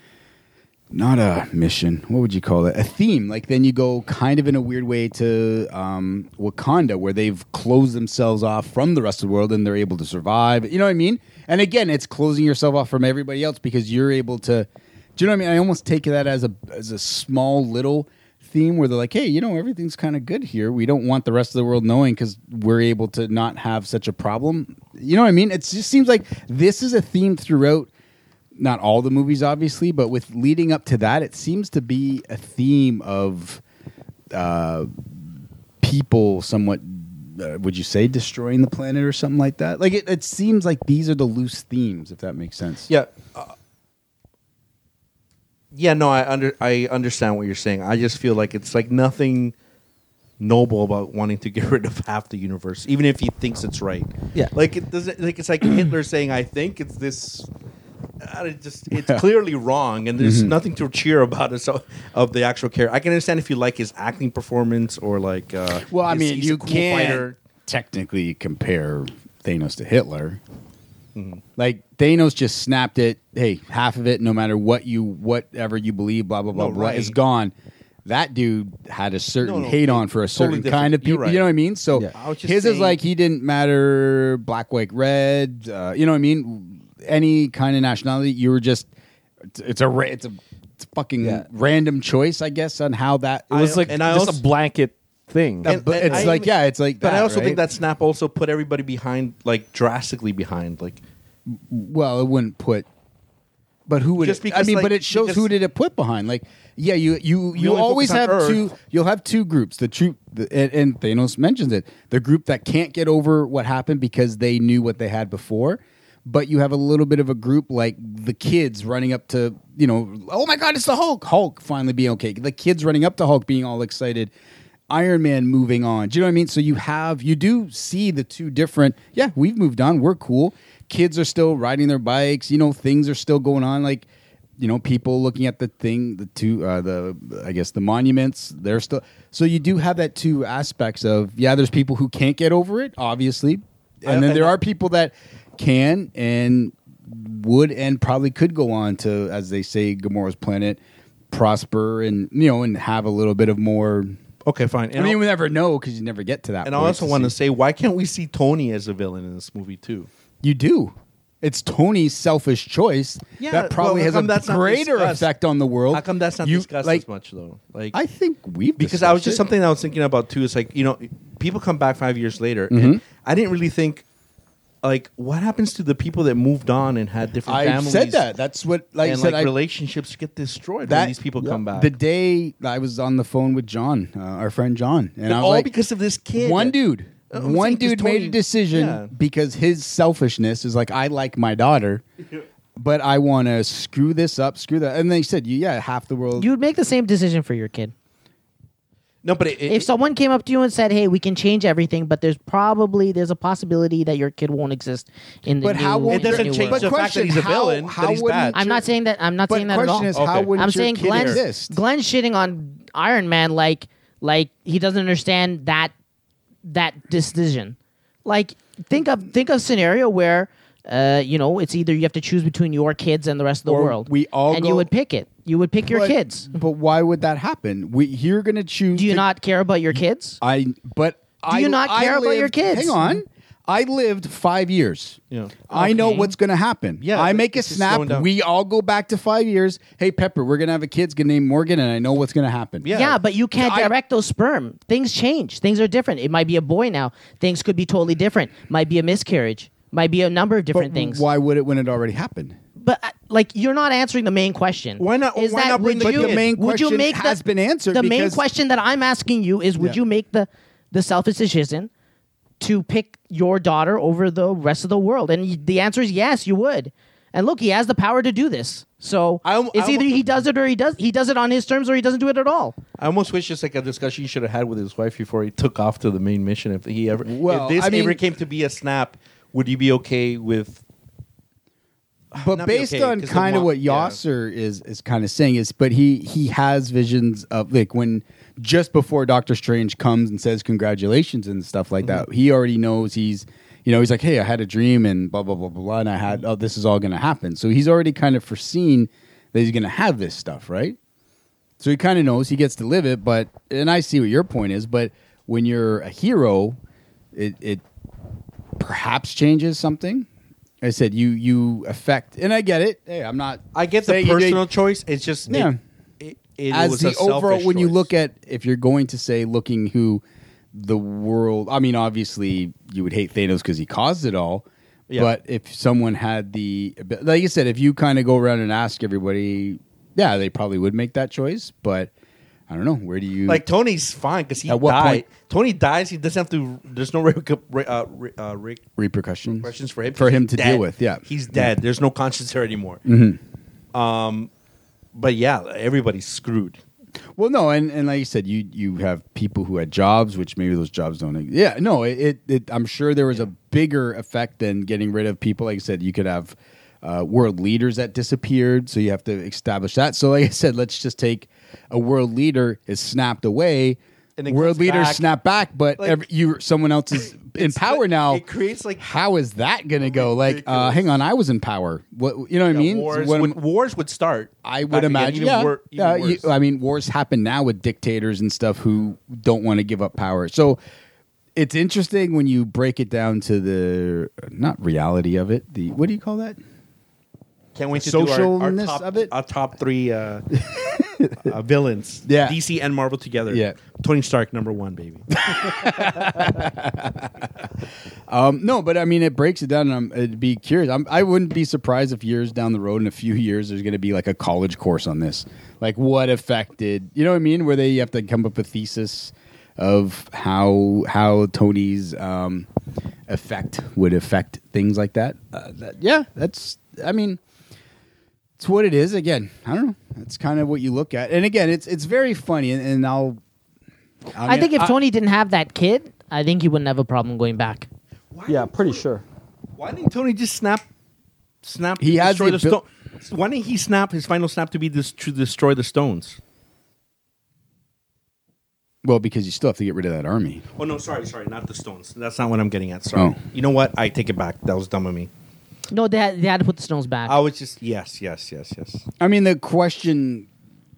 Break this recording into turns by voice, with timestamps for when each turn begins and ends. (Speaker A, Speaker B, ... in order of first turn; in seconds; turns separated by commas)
Speaker A: 0.9-27.9, Speaker A: 28.5-33.6, Speaker A: 34.3-42.9, Speaker B: 42.9-43.5, Speaker B: 45.7-49.5, Speaker B: 50.4-57.5, Speaker B: 58.2-67.3, Speaker A: 58.9-59.2, Speaker A: 60.2-60.5, Speaker A: 65.8-70.4, Speaker B: 71.1-71.4, Speaker A: 71.6-77.5, Speaker B: 76.5-77.2, Speaker A: 78.0-88.9, Speaker B: 79.4-81.5, Speaker B: 82.1-83.0, Speaker A: 89.5-93.9, Speaker B: 93.5-94.4, Speaker C: 93.6-96.3, Speaker A: 95.6-97.6, Speaker B: 95.6-101.0, Speaker A: 101.5-102.9, Speaker A: 103.9-124.3, Speaker B: 104.2-105.5, Speaker B: 107.5-108.7, Speaker A: 124.9-134.1, Speaker A: 134.6-150.8, Speaker B: 144.1-144.6, Speaker A: 151.3-154.2, Speaker B: 154.4-155.2, Speaker A: 154.9-157.3, Speaker B: 156.6-160.1, Speaker A: 160.4-167.0, Speaker B: 163.4-165.3, Speaker B: 165.9-168.0, Speaker A: 167.9-169.4, Speaker B: 168.8-174.0, Speaker A: 172.7-173.0, Speaker B: 174.8-178.2, Speaker A: 177.4-179.5, Speaker B: 179.0-181.9, Speaker A: 180.8-185.7, Speaker B: 185.3-186.8, Speaker A: 186.3-192.0, Speaker B: 187.3-189.1, Speaker A: 192.8-196.5, Speaker D: 196.3-197.9, Speaker B: 199.2-199.9, Speaker D: 199.7-206.9, Speaker A: 205.6-208.9, Speaker B: 206.1-208.5, Speaker D: 208.5-215.9, Speaker A: 209.5-211.8, Speaker B: 210.1-211.4, Speaker D: 216.7-226.6, Speaker A: 223.7-224.9, Speaker A: 225.8-229.2, Speaker D: 228.9-230.4, Speaker A: 230.4-242.9, Speaker D: 231.5-233.2, Speaker B: 235.3-235.7, Speaker D: 235.7-236.3, Speaker B: 237.0-238.3, Speaker B: 242.8-243.2, Speaker D: 242.9-251.2, Speaker A: 243.6-243.9, Speaker A: 250.7-252.6, Speaker D: 252.8-257.4, Speaker B: 255.0-256.5, Speaker A: 256.0-258.4, Speaker D: 257.9-261.9, Speaker D: 262.6-272.7, Speaker B: 269.4-270.3, Speaker B: 273.0-280.8, Speaker A: 277.2-278.2, Speaker B: 282.3-284.2, Speaker A: 282.4-301.0, Speaker A: 301.8-306.8, Speaker A: 307.3-307.8, Speaker A: 308.8-310.3, Speaker A: 310.8-314.6, Speaker B: 313.7-318.1, Speaker A: 315.5-315.8, Speaker A: 316.7-332.1, Speaker A: 332.7-333.7, Speaker B: 333.4-338.8, Speaker A: 334.6-335.2, Speaker A: 339.0-341.7, Speaker B: 339.5-343.0, Speaker A: 343.1-343.4, Speaker B: 343.9-344.5, Speaker B: 345.1-346.8, Speaker A: 347.4-368.4, Speaker B: 364.4-365.2, Speaker B: 366.0-366.2, Speaker B: 367.4-369.1, Speaker A: 369.0-373.6, Speaker B: 370.1-371.1, Speaker B: 372.7-376.5, Speaker A: 374.6-380.8, Speaker A: 381.5-386.6, Speaker B: 387.7-390.5, Speaker A: 387.9-389.3, Speaker A: 390.6-391.5, Speaker B: 391.4-395.4, Speaker A: 392.2-392.6, Speaker A: 393.5-393.8, Speaker A: 395.3-397.7, Speaker A: 398.3-412.7, Speaker A: 413.3-417.4, Speaker A: 418.6-423.4, Speaker A: 424.3-424.9, Speaker D: 424.4-427.9, Speaker B: 428.3-429.0, Speaker C: 428.5-429.2, Speaker B: 429.8-430.8, Speaker B: 431.6-436.4, Speaker A: 432.0-432.8, Speaker A: 439.0-440.6, Speaker B: 440.8-445.3, Speaker D: 445.9-447.4, Speaker B: 447.3-449.1, Speaker A: 449.2-450.5